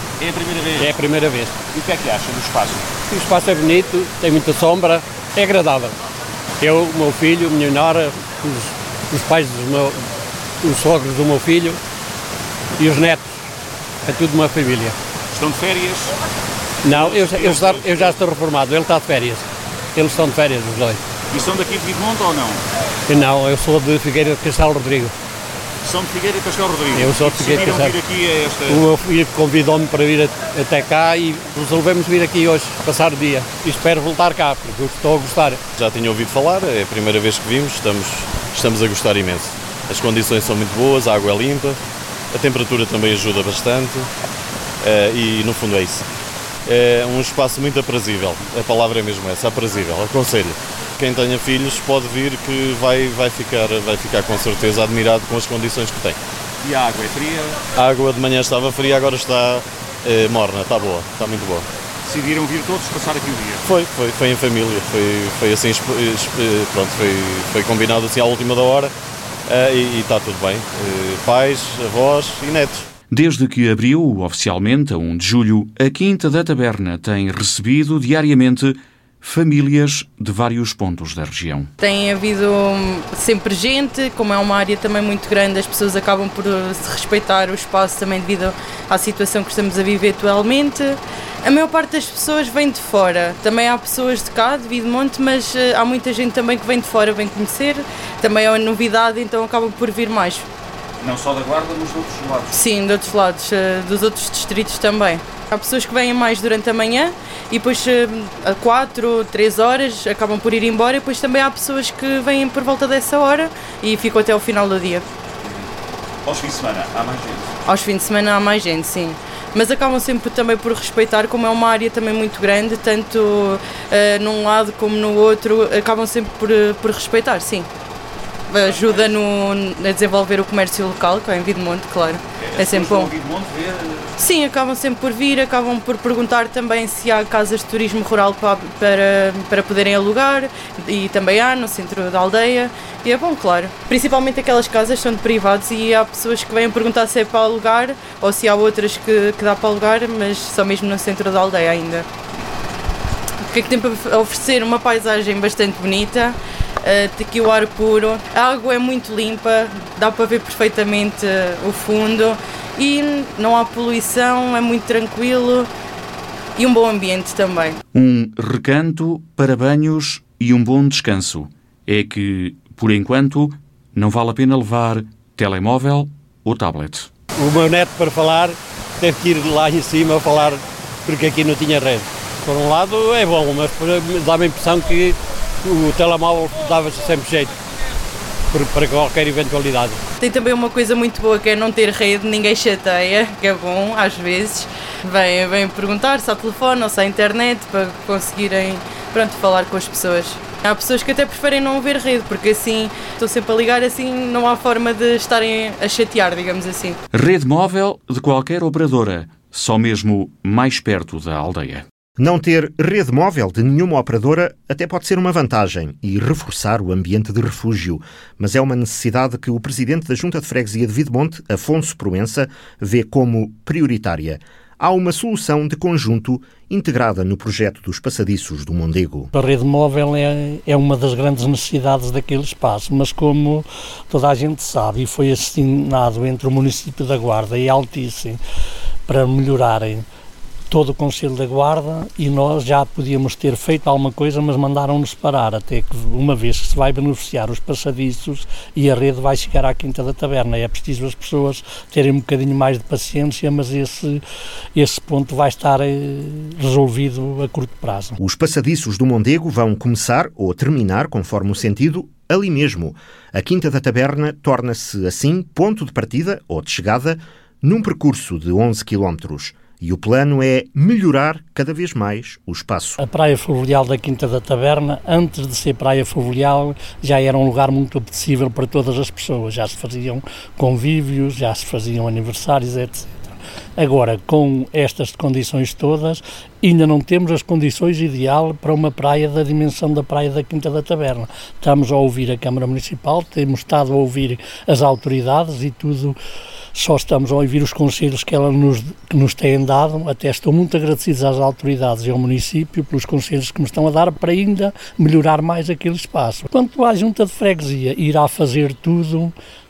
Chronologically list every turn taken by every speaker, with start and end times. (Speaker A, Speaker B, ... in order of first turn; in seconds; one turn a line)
Speaker A: 0.2-0.9
Speaker B: 0.8-1.5
Speaker A: 1.7-2.9
Speaker B: 3.1-6.0
Speaker B: 6.6-10.0
Speaker B: 10.6-11.8
Speaker B: 12.8-13.3
Speaker B: 14.0-15.0
Speaker A: 15.3-16.1
Speaker B: 16.8-21.0
Speaker A: 16.9-18.2
Speaker A: 21.3-22.6
Speaker B: 23.1-25.1
Speaker A: 25.9-28.8
Speaker B: 26.9-28.0
Speaker B: 28.7-35.6
Speaker C: 35.8-41.8
Speaker C: 42.3-44.1
Speaker C: 44.8-46.1
Speaker C: 46.7-56.2
Speaker A: 56.6-57.6
Speaker C: 57.8-61.7
Speaker A: 62.1-63.6
Speaker C: 63.6-68.9
Speaker C: 69.5-72.9
Speaker D: 73.1-81.7
Speaker E: 81.8-100.5
Speaker A: 101.0-102.5
Speaker E: 102.5-115.1
Speaker A: 116.2-117.5
Speaker E: 117.7-127.7
Speaker E: 128.5-133.1
Speaker A: 128.6-129.1
Speaker A: 132.4-134.1
Speaker E: 134.2-152.1
Speaker E: 153.4-165.7
Speaker E: 166.6-167.8
Speaker D: 167.9-177.1
Speaker B: 177.4-187.5
Speaker B: 188.5-190.0
Speaker E: 190.2-207.0
Speaker D: 207.1-211.8
Speaker F: 212.2-229.3
Speaker G: 229.3-238.4
Speaker G: 239.1-240.1
Speaker G: 240.7-254.2
Speaker G: 254.8-258.2
Speaker F: 258.2-273.0
Speaker G: 273.0-296.2
Speaker G: 296.7-309.3